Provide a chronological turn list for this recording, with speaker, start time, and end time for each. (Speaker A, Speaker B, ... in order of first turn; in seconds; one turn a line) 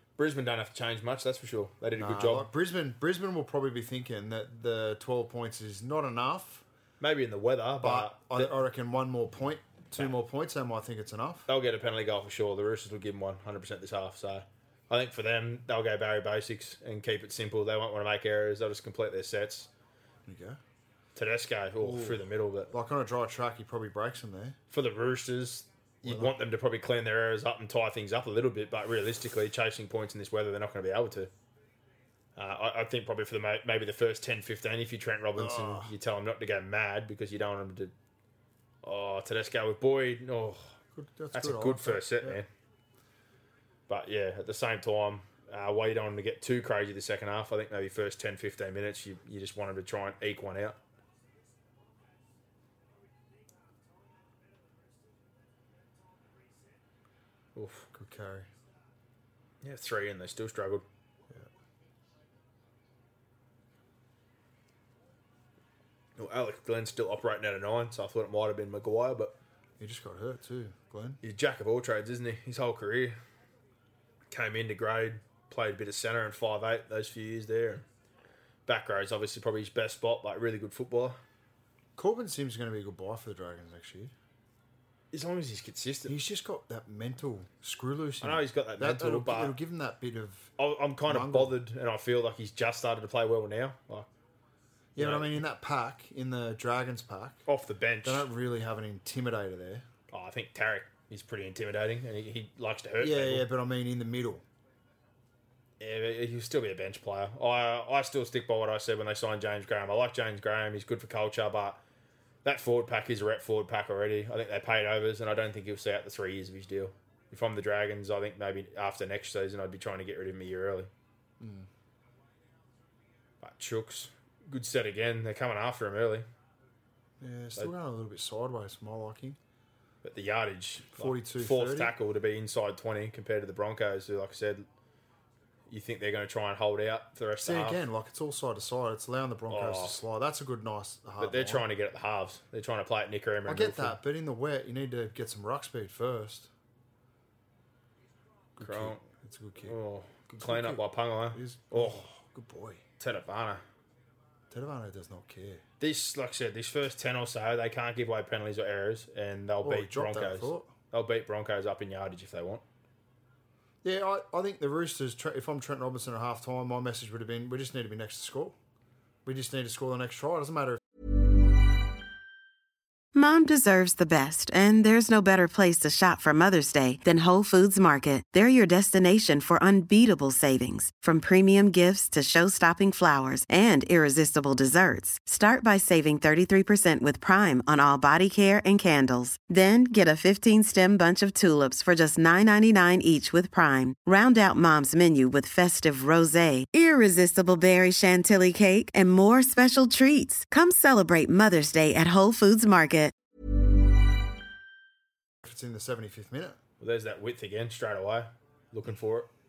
Speaker A: 0.2-2.5
Speaker B: 1.9-6.6
Speaker A: 7.0-8.5
Speaker B: 7.8-11.5
Speaker A: 11.5-19.7
Speaker B: 20.2-20.6
Speaker A: 21.1-22.7
Speaker B: 21.8-24.6
Speaker A: 24.7-31.3
Speaker B: 26.0-26.4
Speaker A: 32.4-37.9
Speaker B: 35.4-35.9
Speaker A: 38.8-40.8
Speaker B: 40.9-42.4
Speaker A: 41.3-42.5
Speaker A: 43.9-50.8
Speaker A: 57.5-57.9
Speaker B: 57.9-58.5
Speaker A: 59.6-60.8
Speaker A: 66.2-69.3
Speaker B: 69.8-71.2
Speaker A: 71.2-73.2
Speaker A: 74.3-77.8
Speaker A: 78.7-81.2
Speaker B: 82.0-84.1
Speaker A: 85.1-86.2
Speaker B: 86.0-90.5
Speaker A: 88.2-89.6
Speaker A: 90.6-94.1
Speaker B: 91.0-91.6
Speaker B: 95.0-97.4
Speaker A: 95.0-95.4
Speaker A: 97.5-98.3
Speaker B: 98.0-99.9
Speaker A: 100.1-103.5
Speaker B: 103.0-104.4
Speaker A: 105.8-111.8
Speaker A: 112.4-120.9
Speaker B: 121.4-121.7
Speaker A: 123.4-126.3
Speaker B: 127.2-129.4
Speaker A: 130.0-134.7
Speaker B: 130.9-131.9
Speaker A: 135.7-137.8
Speaker B: 137.4-141.7
Speaker A: 139.5-140.0
Speaker A: 141.2-144.0
Speaker B: 143.4-146.5
Speaker B: 148.6-149.8
Speaker A: 148.6-149.1
Speaker A: 149.6-152.0
Speaker B: 150.4-152.8
Speaker A: 153.0-153.6
Speaker B: 154.5-155.6
Speaker A: 155.8-162.6
Speaker B: 159.6-160.7
Speaker B: 163.8-168.6
Speaker B: 169.2-170.8
Speaker C: 173.1-203.1
Speaker B: 205.4-206.6
Speaker A: 206.8-209.3